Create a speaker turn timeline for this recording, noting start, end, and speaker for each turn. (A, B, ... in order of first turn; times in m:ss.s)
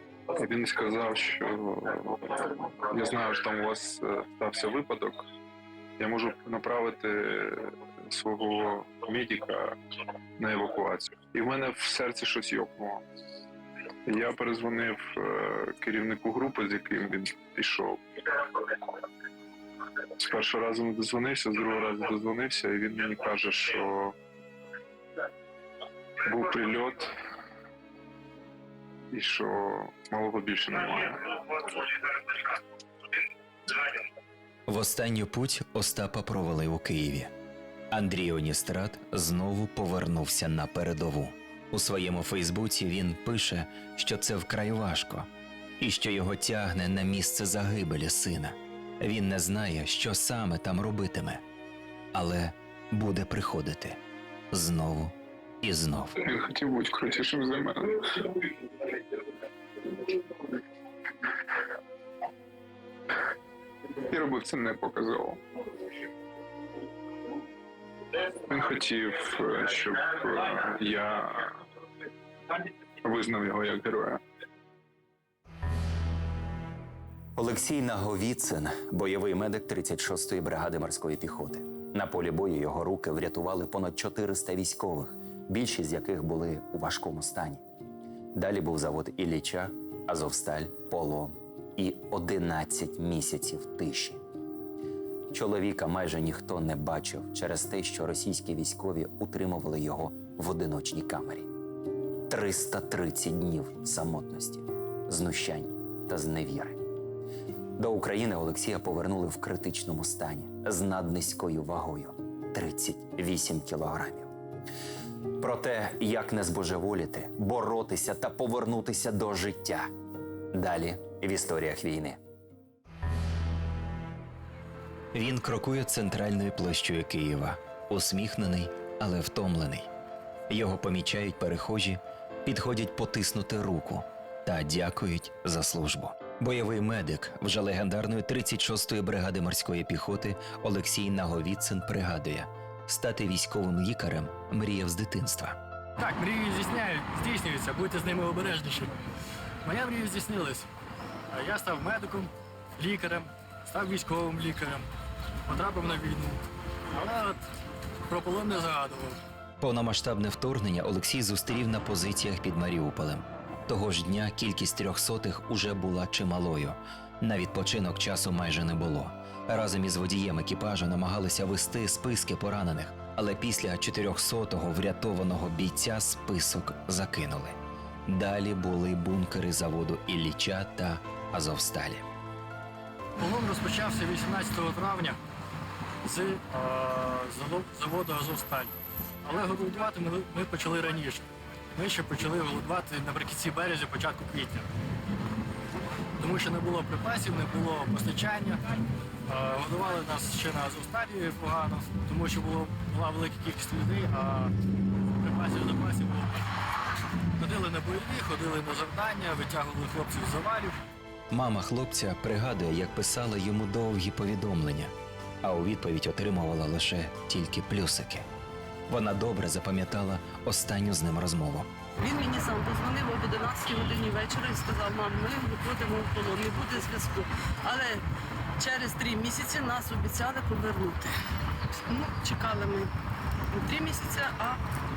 0:00.3-0:05.2 A
0:06.0-0:09.8 A
0:10.4-0:13.0 A
0:14.0-0:18.9 A
0:20.1-0:24.1 A
0:26.2-0:27.1 A
0:29.1-0:32.5 A
0:34.7-0:37.3 B
0:37.9-0:45.3 B
0:45.8-0:51.4 B
0:52.1-0:54.0 B
0:54.5-0:56.2 B
0:56.2-0:58.8 A
1:04.0-1:05.4 A
1:08.2-1:11.6 A
1:13.0-1:14.2 A
1:17.4-1:27.6 C
1:28.4-1:34.2 C
1:35.3-1:41.5 C
1:42.3-1:46.8 C
1:47.8-1:54.3 C
1:55.4-1:59.9 C
2:00.5-2:02.2 C
2:05.1-2:09.9 B
2:10.5-2:25.6 B
2:26.0-2:28.9 D
2:29.6-2:30.7 D
2:31.3-2:34.9 D
2:35.5-2:36.4 D
2:36.9-2:37.4 D
2:38.1-2:39.2 D
2:39.6-3:02.0 B
3:03.2-3:05.2 D
3:06.0-3:08.7 D
3:09.2-3:14.7 D
3:16.2-3:18.6 D
3:19.2-3:26.5 D
3:27.4-3:30.8 D
3:31.3-3:38.3 B
3:38.9-3:41.7 B
3:42.0-3:48.0 E
3:48.6-3:51.1 E
3:51.9-3:52.9 E
3:53.5-3:54.6 E